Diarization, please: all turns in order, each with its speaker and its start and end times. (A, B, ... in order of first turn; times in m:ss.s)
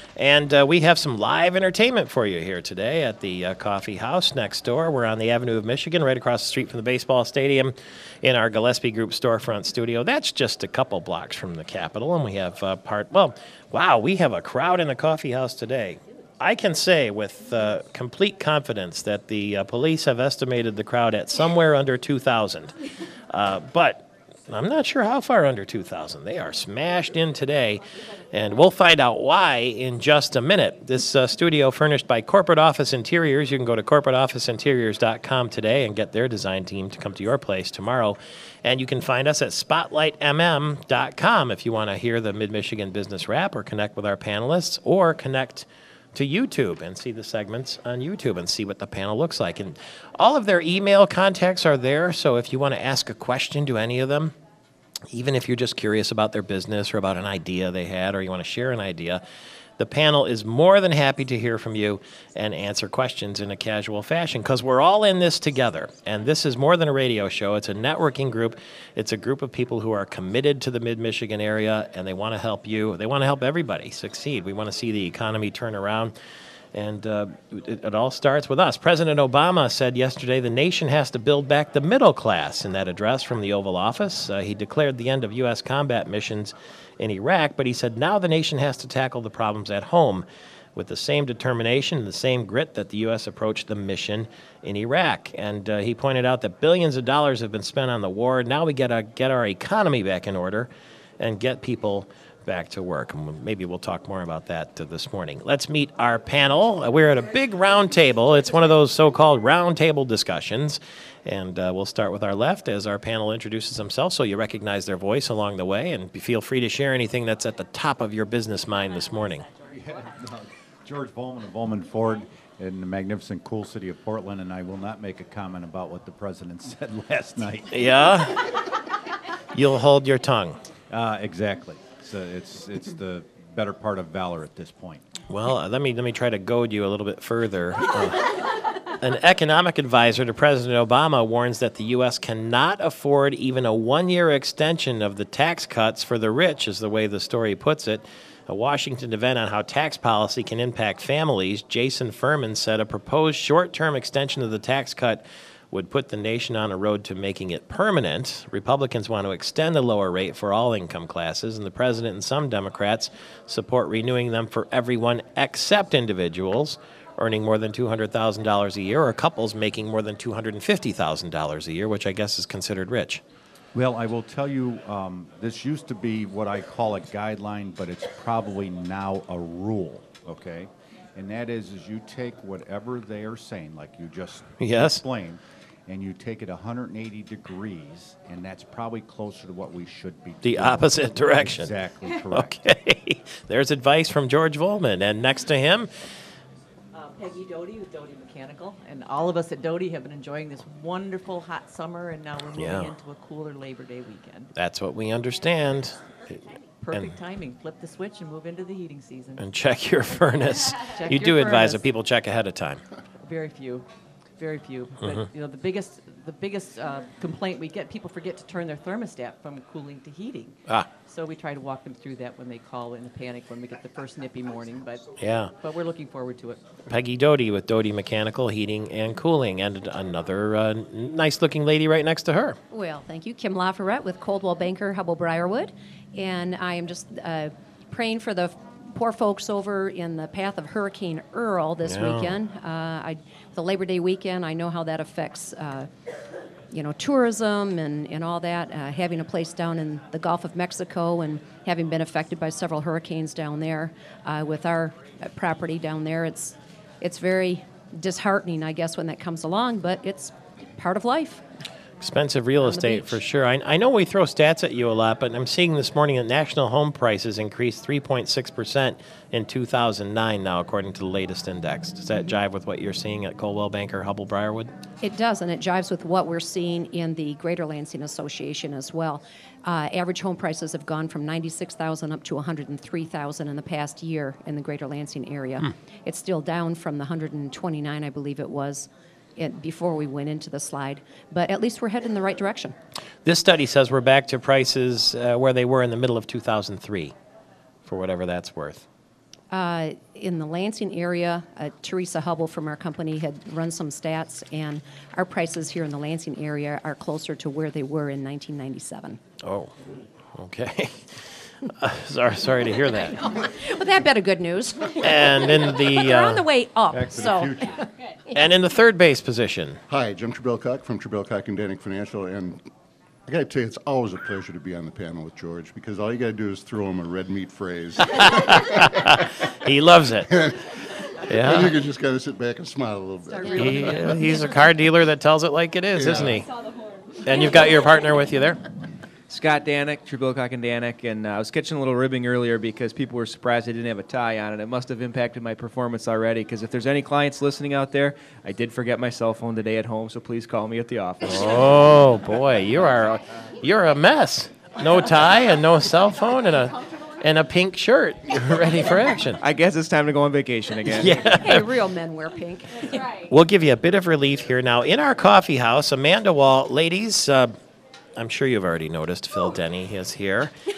0:00.2-0:22.7 A
0:23.3-0:54.3 A
0:55.1-0:59.2 A
0:59.8-1:16.1 A
1:16.7-1:40.7 A
1:41.2-1:59.5 A
1:59.7-2:07.7 B
2:07.7-2:08.5 A
2:09.5-2:10.6 A
2:10.9-2:15.1 B
2:15.3-2:18.4 A
2:18.9-2:53.2 A
2:53.7-3:12.5 B
3:04.6-3:05.0 A
3:10.4-3:11.7 A
3:12.3-3:15.9 A
3:16.9-3:24.5 C
3:22.6-3:22.9 A
3:24.5-3:26.0 A
3:26.8-3:29.4 C
3:29.4-3:32.8 A
3:30.9-3:31.8 C
3:33.2-3:33.8 C
3:34.4-3:46.6 C
3:45.2-3:45.5 A
3:46.9-3:52.6 A
3:52.7-4:05.9 D
4:01.8-4:02.3 A
4:06.7-4:21.4 D
4:22.0-4:34.7 A
4:22.6-4:23.2 D
4:35.0-4:52.7 D
4:53.2-4:57.1 A
4:57.8-4:58.8 A
4:59.5-5:09.2 D
5:09.4-5:09.7 A
5:10.3-5:13.1 A
5:13.2-5:17.8 D
5:15.0-5:16.4 A
5:16.9-5:17.8 B
5:18.3-5:19.8 A
5:19.9-5:22.6 E
5:23.3-5:29.1 E
5:28.1-5:30.3 A
5:30.3-5:30.7 E
5:31.2-5:31.8 A
5:31.3-5:34.1 E
5:33.5-5:36.5 A
5:36.0-5:36.4 E
5:37.2-5:38.6 A
5:39.3-5:51.8 F
5:51.2-5:59.4 A
5:59.4-6:01.4 F
6:00.9-6:01.7 A
6:01.1-6:03.1 D
6:03.2-6:07.5 A
6:08.2-6:10.5 A